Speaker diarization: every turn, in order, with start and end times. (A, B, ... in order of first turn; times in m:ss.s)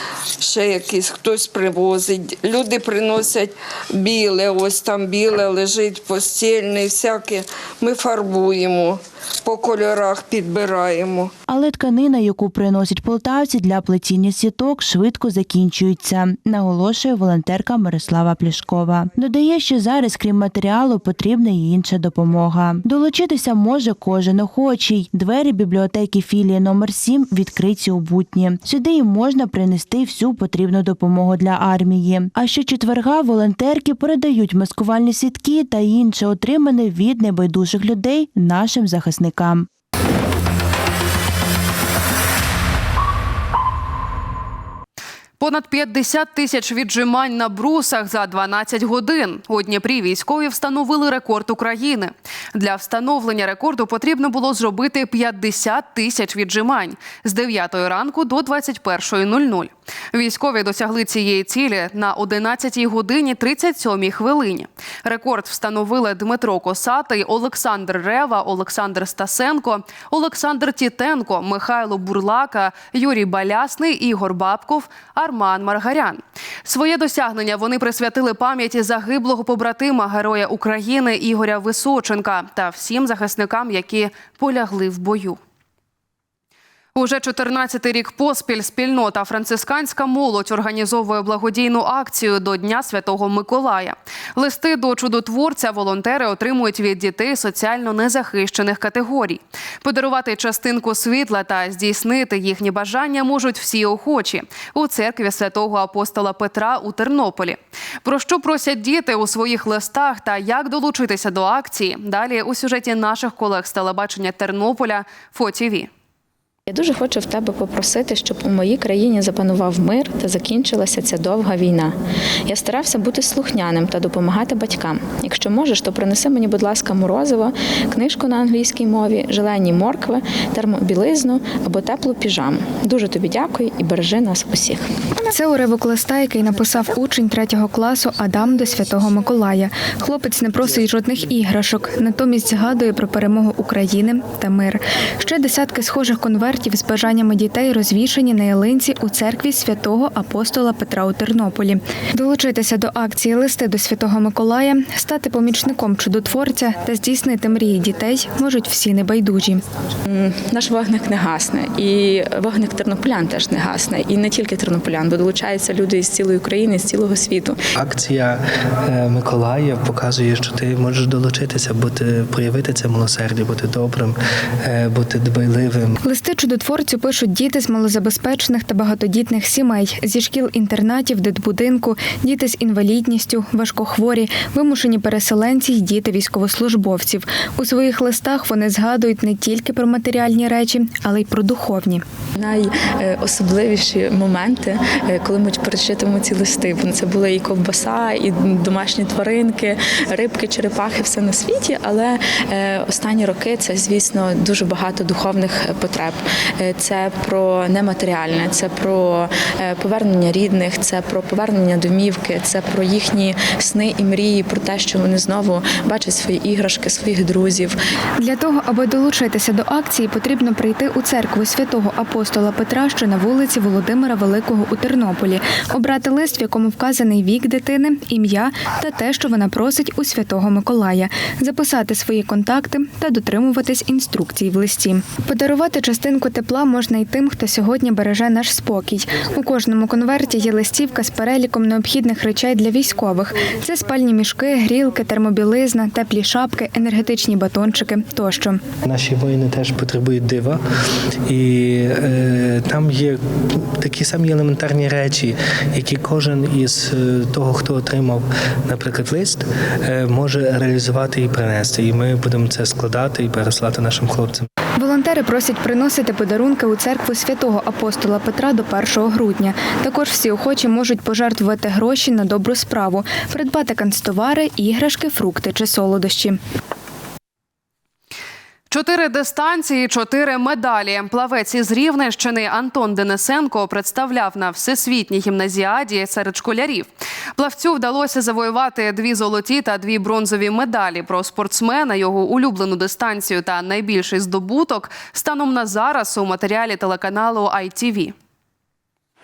0:00.4-0:11.3 A
0:11.5-0:39.7 B
0:45.4-1:25.4 C
1:26.9-1:55.9 C
1:56.7-2:01.9 D
2:02.5-2:14.8 D
2:15.3-2:39.6 E
2:40.1-2:47.6 D
2:47.8-2:48.4 F
2:48.9-2:55.9 F
2:56.0-3:12.0 E
3:12.4-3:37.8 D
3:38.2-4:08.6 E
4:08.8-4:10.6 F
4:11.3-4:13.2 F
4:13.8-4:24.4 F
4:24.8-4:36.4 E
4:38.7-4:58.1 C